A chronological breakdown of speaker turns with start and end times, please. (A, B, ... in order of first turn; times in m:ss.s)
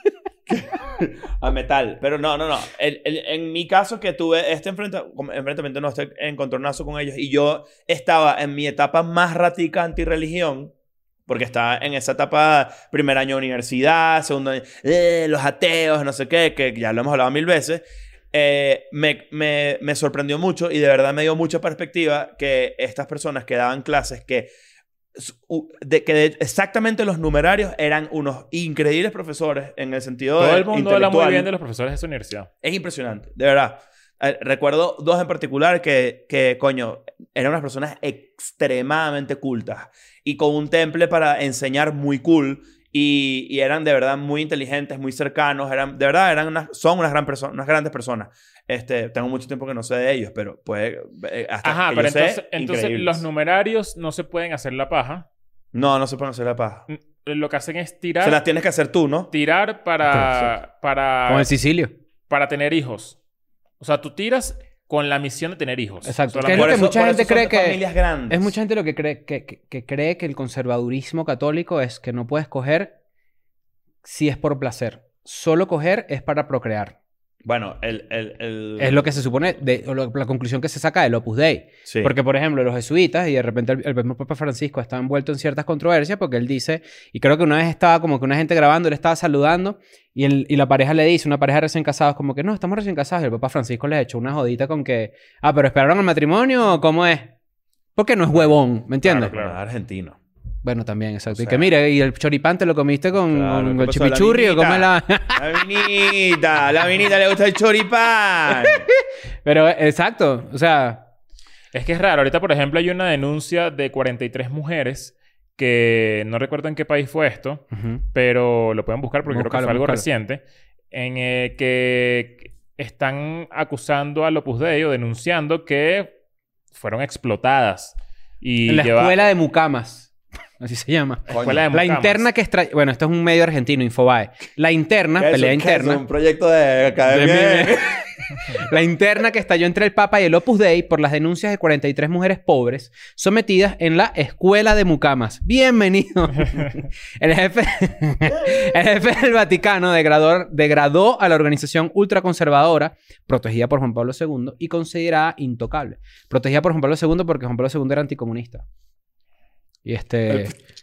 0:00.5-0:10.7 A
0:11.3-0:24.5 A
0:25.2-0:31.5 A
0:30.4-0:32.5 B
0:32.6-0:53.2 A
0:51.6-0:55.3 B
0:55.7-0:56.8 A
0:56.9-0:58.4 B
0:58.2-0:59.3 A
0:59.3-1:01.5 B
1:01.3-1:01.9 C
1:02.3-1:03.2 B
1:03.8-1:06.8 B
1:06.0-1:12.9 C
1:06.4-1:08.5 A
1:14.0-1:17.0 C
1:17.4-1:19.2 A
1:18.8-1:37.3 C
1:21.8-1:22.1 A
1:38.0-1:39.3 C
1:39.0-1:40.2 A
1:39.1-1:39.6 B
1:40.6-1:46.2 C
1:41.3-1:41.7 A
1:43.1-1:48.9 A
1:48.5-1:51.1 C
1:51.7-2:06.2 B
1:57.7-1:58.0 C
1:59.2-2:00.0 C
2:06.7-2:09.2 B
2:08.7-2:16.0 C
2:11.3-2:12.3 B
2:11.3-2:11.6 A
2:15.2-2:18.0 A
2:17.0-2:38.6 C
2:39.8-2:40.5 C